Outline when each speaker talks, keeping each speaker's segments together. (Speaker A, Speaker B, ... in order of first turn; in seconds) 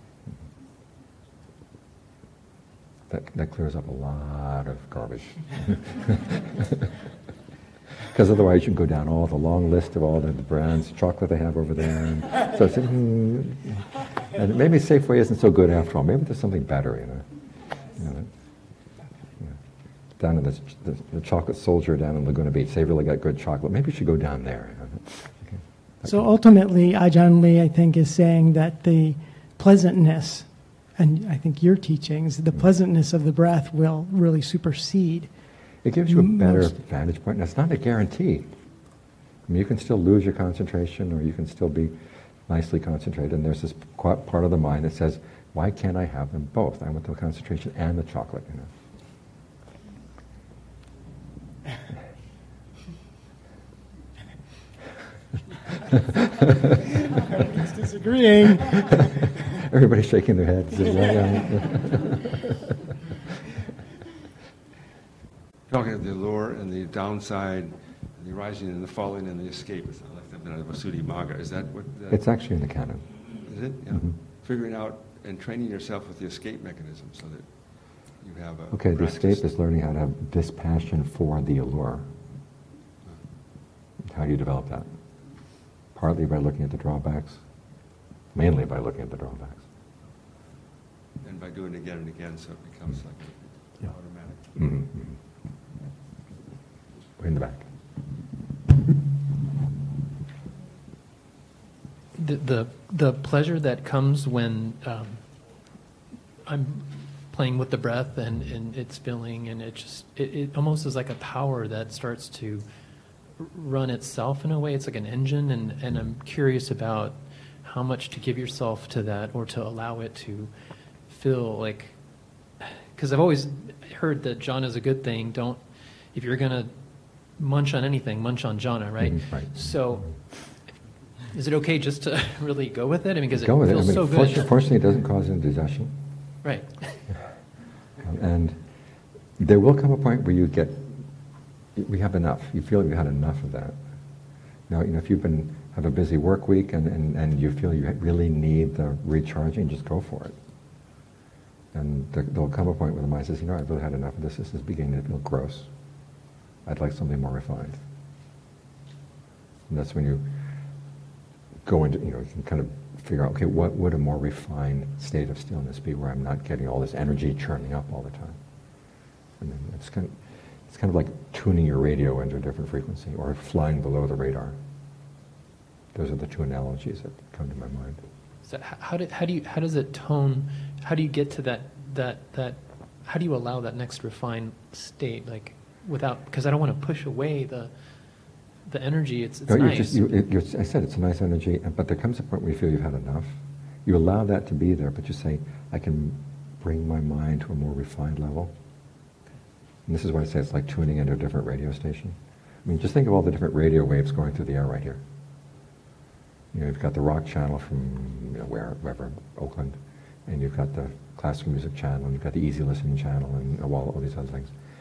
Speaker A: 3.1-6.9, 8.1-17.3, 17.9-18.3, 20.2-26.2, 35.8-38.5, 39.5-41.9, 42.5-48.7, 58.8-62.6, 72.1-73.0, 78.7-82.1, 84.0-84.9, 85.9-87.4, 88.3-89.6, 94.5-95.1, 97.2-97.6, 129.0-129.7, 133.3-135.9, 138.1-138.6, 139.4-141.0, 141.7-143.8, 144.7-150.3, 151.7-155.7, 156.7-157.8, 159.7-160.3, 161.7-168.4, 169.4-170.2, 170.7-174.6, 175.9-178.0, 189.5-198.5, 199.9-205.0, 206.5-214.5
Speaker B: 26.0-35.3, 36.1-36.8, 57.4-59.1
Speaker C: 65.7-72.2, 73.4-79.5, 91.2-94.6
Speaker D: 102.2-105.7, 106.4-112.7, 113.4-120.5, 121.0-122.0, 122.6-130.7, 131.3-134.5, 136.4-137.0, 178.4-190.2